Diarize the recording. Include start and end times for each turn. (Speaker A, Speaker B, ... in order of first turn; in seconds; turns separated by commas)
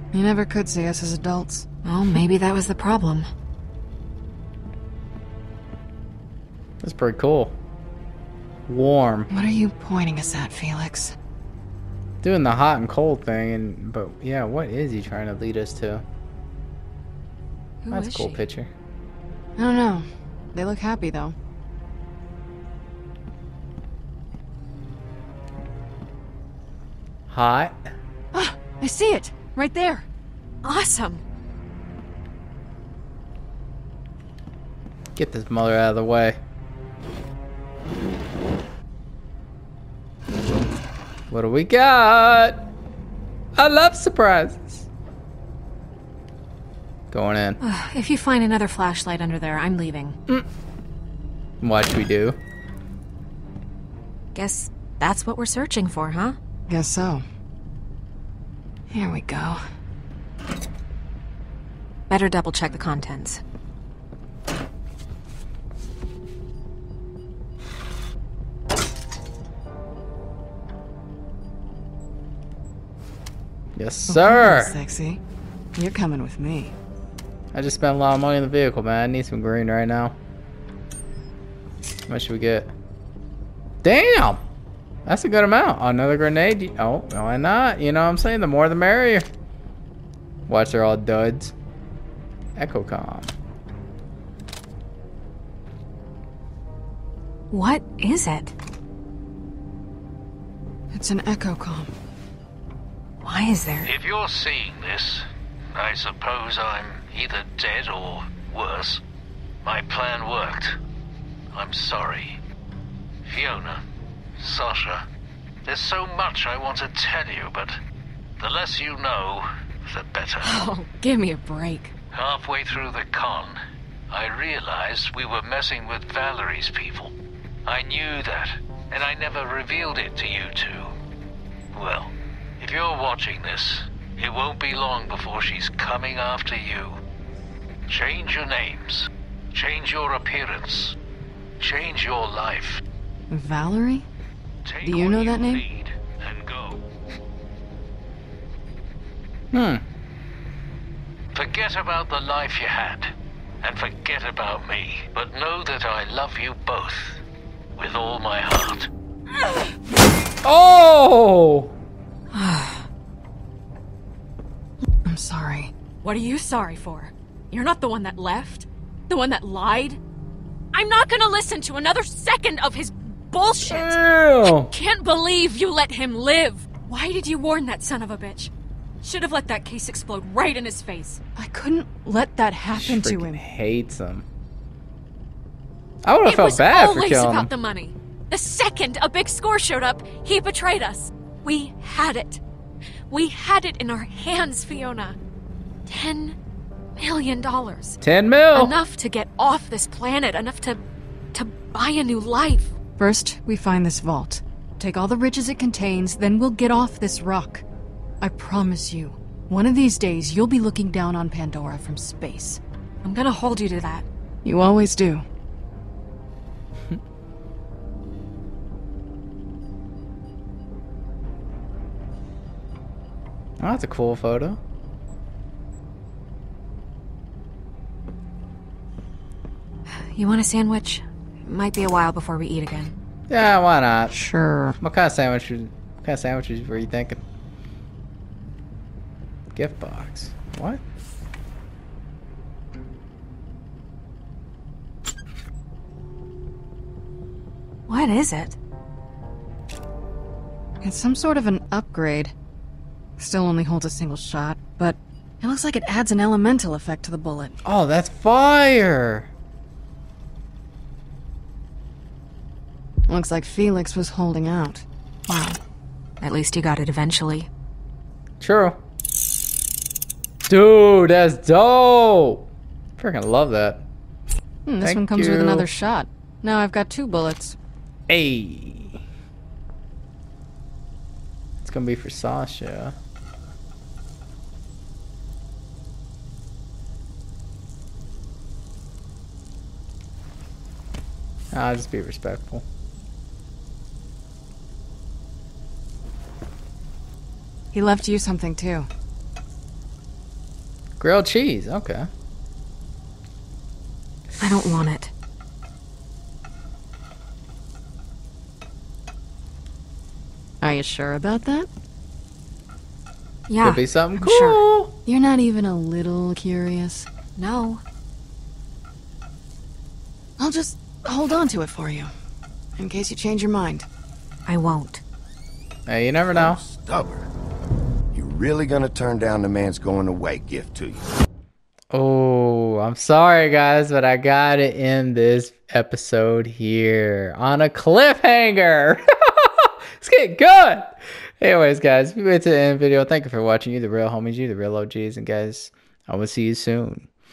Speaker A: 0.1-1.7, Speaker B: 1.9-3.3, Speaker C: 6.8-7.5, Speaker C: 8.7-9.3, Speaker A: 9.3-11.2, Speaker C: 12.2-16.0, Speaker B: 17.8-18.4, Speaker C: 17.9-18.7, Speaker A: 19.6-21.4, Speaker C: 27.3-27.8, Speaker A: 28.3-30.1, Speaker B: 30.6-31.2, Speaker C: 35.1-36.4, Speaker C: 41.3-42.6, Speaker C: 43.6-44.9, Speaker C: 47.1-47.6, Speaker B: 47.6-50.2, Speaker C: 51.6-52.4, Speaker B: 54.4-56.4, Speaker A: 56.7-57.2, Speaker A: 58.9-59.6, Speaker B: 62.1-63.4, Speaker C: 73.8-74.8, Speaker A: 74.1-75.2, Speaker A: 75.8-76.7, Speaker C: 77.5-80.2, Speaker C: 82.1-82.7, Speaker C: 83.8-84.4, Speaker C: 85.1-89.3, Speaker C: 90.5-91.5, Speaker C: 92.6-93.3, Speaker B: 97.5-98.5, Speaker A: 100.9-101.9, Speaker B: 103.2-103.9, Speaker D: 103.8-109.0, Speaker D: 109.6-110.8, Speaker D: 111.5-112.4, Speaker D: 113.2-113.8, Speaker D: 114.4-115.0, Speaker D: 115.7-117.8, Speaker D: 118.4-120.7, Speaker B: 120.5-122.0, Speaker D: 122.1-123.6, Speaker D: 124.1-127.1, Speaker D: 127.7-130.9, Speaker D: 131.7-137.0, Speaker D: 137.9-141.0, Speaker D: 141.6-142.8, Speaker A: 143.3-144.1, Speaker D: 144.7-146.8, Speaker A: 144.8-145.7, Speaker C: 149.5-149.8, Speaker D: 151.3-157.2, Speaker D: 157.8-158.9, Speaker C: 160.4-161.7, Speaker B: 162.3-162.9, Speaker A: 165.1-165.7, Speaker B: 166.0-170.0, Speaker B: 170.7-174.0, Speaker C: 173.6-174.7, Speaker B: 174.7-178.5, Speaker B: 179.0-181.2, Speaker A: 181.4-183.4, Speaker C: 182.7-184.3, Speaker C: 186.1-187.5, Speaker B: 186.2-192.4, Speaker B: 193.1-195.2, Speaker B: 195.9-196.4, Speaker B: 197.0-198.0, Speaker C: 198.0-198.8, Speaker B: 198.5-200.8, Speaker B: 201.3-202.7, Speaker A: 203.0-207.6, Speaker A: 208.2-212.6, Speaker B: 213.0-214.1, Speaker A: 214.4-215.2, Speaker C: 223.6-224.6, Speaker B: 229.9-232.9, Speaker C: 233.3-234.2, Speaker A: 234.1-234.8, Speaker C: 234.8-237.2, Speaker C: 239.5-240.8, Speaker B: 247.9-248.6, Speaker A: 250.8-252.3, Speaker A: 253.2-257.6, Speaker C: 257.6-259.3, Speaker A: 263.1-264.9, Speaker B: 265.3-265.6, Speaker B: 266.2-267.5, Speaker C: 268.4-268.8, Speaker C: 270.5-272.5, Speaker C: 273.0-273.8, Speaker A: 274.7-277.6, Speaker C: 274.8-275.7, Speaker C: 278.1-279.0, Speaker C: 281.6-283.0, Speaker C: 291.5-292.6, Speaker A: 297.7-298.9, Speaker C: 301.0-302.1, Speaker B: 304.4-305.1, Speaker A: 310.6-311.7, Speaker B: 313.5-314.6, Speaker C: 313.6-314.9, Speaker A: 315.1-317.1, Speaker B: 317.4-317.8, Speaker A: 320.4-322.1, Speaker A: 322.8-323.9, Speaker B: 324.5-325.0, Speaker C: 325.9-326.6, Speaker E: 326.3-327.3, Speaker E: 328.1-331.1, Speaker C: 331.9-347.1